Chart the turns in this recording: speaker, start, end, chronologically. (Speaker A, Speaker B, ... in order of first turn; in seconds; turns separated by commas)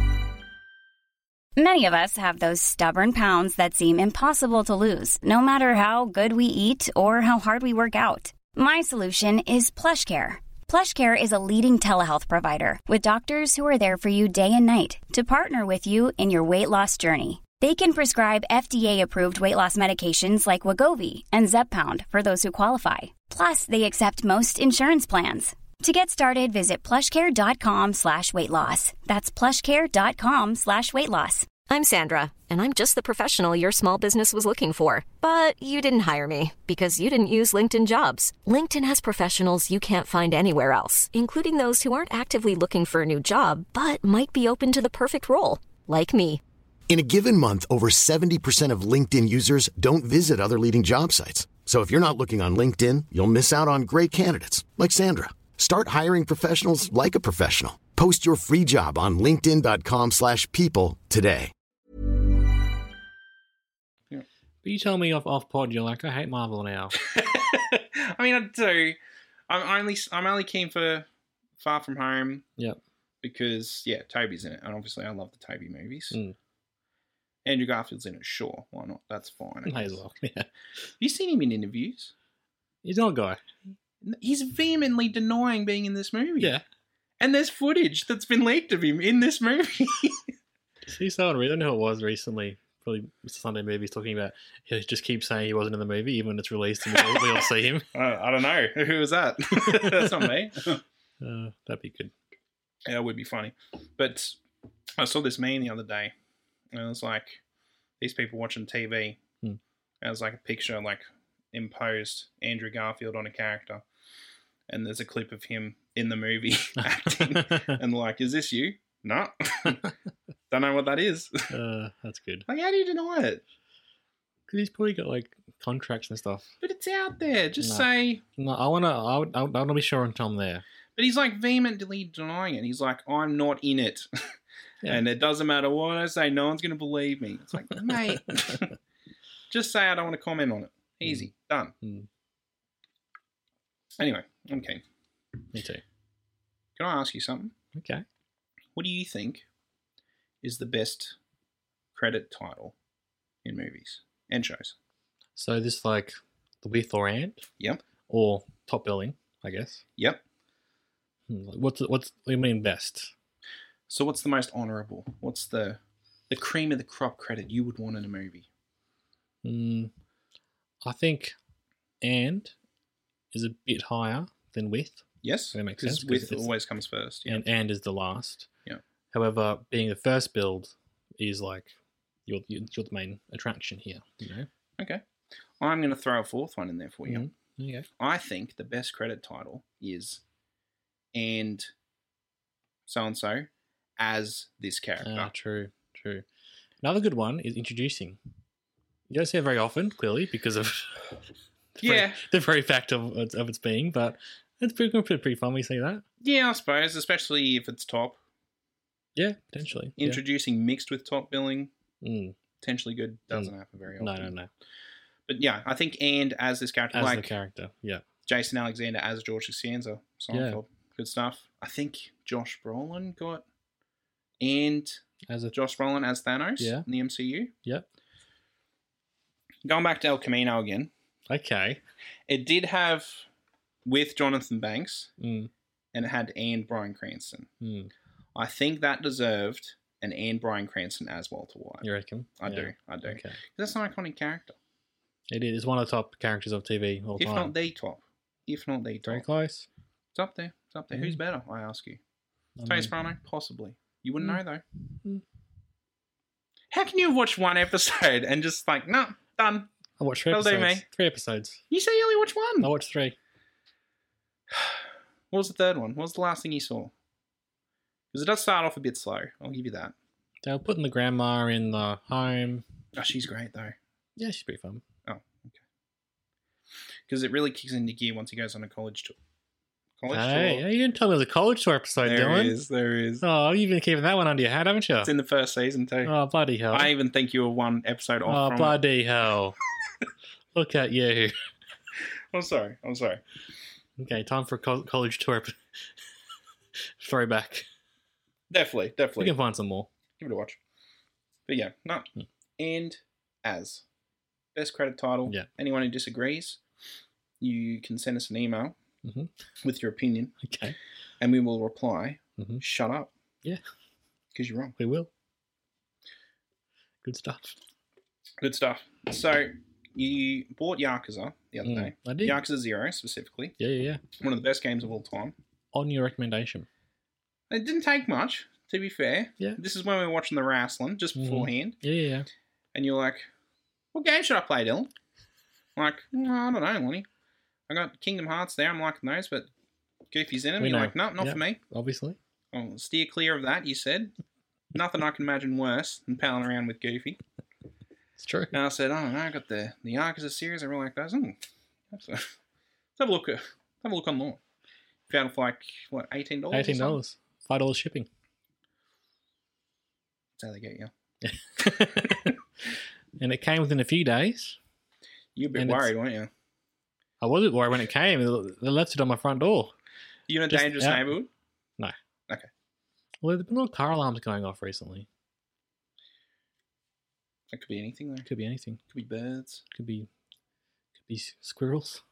Speaker A: 1.6-31.5, Speaker B: 31.7-46.4, Speaker C: 46.9-61.5, Speaker D: 64.6-66.9, Speaker E: 67.0-69.0, Speaker E: 69.5-71.1, Speaker E: 71.6-72.5, Speaker E: 73.2-76.2, Speaker E: 77.5-80.0, Speaker D: 79.7-80.5, Speaker E: 81.0-82.1, Speaker D: 82.8-83.4, Speaker E: 84.0-86.5, Speaker E: 87.2-90.3, Speaker D: 90.9-97.9, Speaker E: 96.9-100.8, Speaker D: 99.6-100.3, Speaker D: 101.2-102.1, Speaker E: 102.9-104.4, Speaker E: 105.0-106.1, Speaker E: 106.7-107.4, Speaker E: 108.0-109.2, Speaker E: 110.0-113.8, Speaker E: 114.7-119.9, Speaker D: 117.2-117.8, Speaker E: 120.5-121.5, Speaker D: 121.5-122.5, Speaker E: 122.5-123.4, Speaker D: 124.5-126.5, Speaker E: 126.6-128.2, Speaker D: 127.6-130.6, Speaker E: 131.0-134.1, Speaker E: 134.8-138.7, Speaker D: 137.9-138.6, Speaker E: 139.5-141.8, Speaker D: 141.8-142.1, Speaker E: 144.0-144.8, Speaker D: 145.5-145.8, Speaker E: 146.8-147.5, Speaker D: 147.8-148.0, Speaker E: 148.8-149.4, Speaker E: 150.4-151.2, Speaker E: 151.9-152.8, Speaker E: 153.4-154.8, Speaker D: 155.4-157.5, Speaker D: 158.1-159.8, Speaker E: 160.0-160.2, Speaker D: 161.3-163.1, Speaker E: 163.9-165.8, Speaker E: 166.3-168.5, Speaker D: 169.4-169.9, Speaker D: 170.8-171.3, Speaker D: 172.0-172.5, Speaker D: 173.3-176.5, Speaker E: 175.2-177.4, Speaker D: 177.3-178.5, Speaker D: 179.1-181.7, Speaker D: 182.3-184.5, Speaker E: 185.6-187.3, Speaker D: 187.1-187.9, Speaker E: 188.0-190.2, Speaker E: 191.1-191.7, Speaker E: 192.9-195.3, Speaker D: 195.0-196.2, Speaker D: 196.8-198.2, Speaker D: 199.1-201.1, Speaker D: 201.8-206.0, Speaker E: 201.8-202.2, Speaker E: 206.2-208.2, Speaker D: 209.2-210.2, Speaker E: 210.0-211.7, Speaker D: 212.0-212.4, Speaker E: 212.6-214.3, Speaker D: 213.3-214.5, Speaker E: 215.3-217.3, Speaker D: 216.9-218.0, Speaker E: 218.3-223.4, Speaker D: 220.3-220.6, Speaker E: 224.4-227.5, Speaker D: 225.3-225.6, Speaker D: 226.6-226.8, Speaker E: 229.7-230.9, Speaker D: 231.3-231.8, Speaker E: 232.3-233.3, Speaker E: 233.8-235.1, Speaker D: 235.2-235.5, Speaker E: 235.9-237.5, Speaker D: 237.6-237.9, Speaker E: 238.3-241.9, Speaker D: 241.8-243.4, Speaker E: 242.4-244.6, Speaker D: 245.3-247.5, Speaker E: 247.2-249.2, Speaker D: 249.1-249.7, Speaker E: 250.1-252.0, Speaker D: 252.6-252.9, Speaker E: 252.7-254.6, Speaker E: 256.7-259.7, Speaker D: 260.0-261.6, Speaker E: 260.3-260.9, Speaker E: 261.7-262.7, Speaker D: 262.6-263.2, Speaker E: 264.5-266.9, Speaker E: 268.1-269.9, Speaker D: 270.4-272.6, Speaker E: 273.0-273.8, Speaker D: 274.2-274.8, Speaker E: 275.1-275.6, Speaker E: 277.1-279.2, Speaker E: 280.0-280.6, Speaker D: 280.1-282.6, Speaker E: 282.0-283.2, Speaker D: 283.2-285.1, Speaker E: 285.0-286.1, Speaker D: 286.1-286.9, Speaker E: 286.7-288.8, Speaker D: 288.3-289.6, Speaker D: 290.5-291.3, Speaker E: 292.3-293.2, Speaker D: 294.0-295.9, Speaker D: 297.0-297.7, Speaker E: 298.5-299.4, Speaker D: 299.2-299.9, Speaker E: 300.2-300.6, Speaker E: 301.5-303.8, Speaker E: 304.6-306.6, Speaker E: 307.4-308.8, Speaker D: 309.0-309.3, Speaker E: 309.6-310.4, Speaker D: 310.4-310.8, Speaker E: 311.2-313.1, Speaker E: 314.4-314.8, Speaker D: 314.8-315.1, Speaker D: 317.0-317.6, Speaker E: 318.4-323.6, Speaker D: 321.6-322.4, Speaker D: 323.6-324.0, Speaker E: 324.2-325.4, Speaker D: 325.7-326.7, Speaker E: 327.5-331.8, Speaker D: 331.2-332.3, Speaker E: 332.7-333.3, Speaker E: 333.9-334.9, Speaker E: 335.8-337.1, Speaker E: 337.7-339.5, Speaker E: 340.1-341.6, Speaker D: 340.6-342.2, Speaker E: 342.5-344.1, Speaker E: 344.7-347.2, Speaker D: 348.2-348.6, Speaker E: 348.5-351.4, Speaker E: 351.9-352.4, Speaker E: 353.0-354.4, Speaker E: 355.1-357.0, Speaker D: 356.5-358.1, Speaker E: 360.4-360.9, Speaker D: 361.2-362.4, Speaker D: 363.2-364.6, Speaker E: 365.4-366.3, Speaker D: 365.6-365.9, Speaker D: 367.2-369.7, Speaker E: 370.3-371.3, Speaker D: 370.5-371.2, Speaker D: 373.2-375.1, Speaker E: 377.5-378.3, Speaker D: 378.3-378.8, Speaker E: 378.9-379.6, Speaker D: 379.7-380.1, Speaker D: 381.1-382.0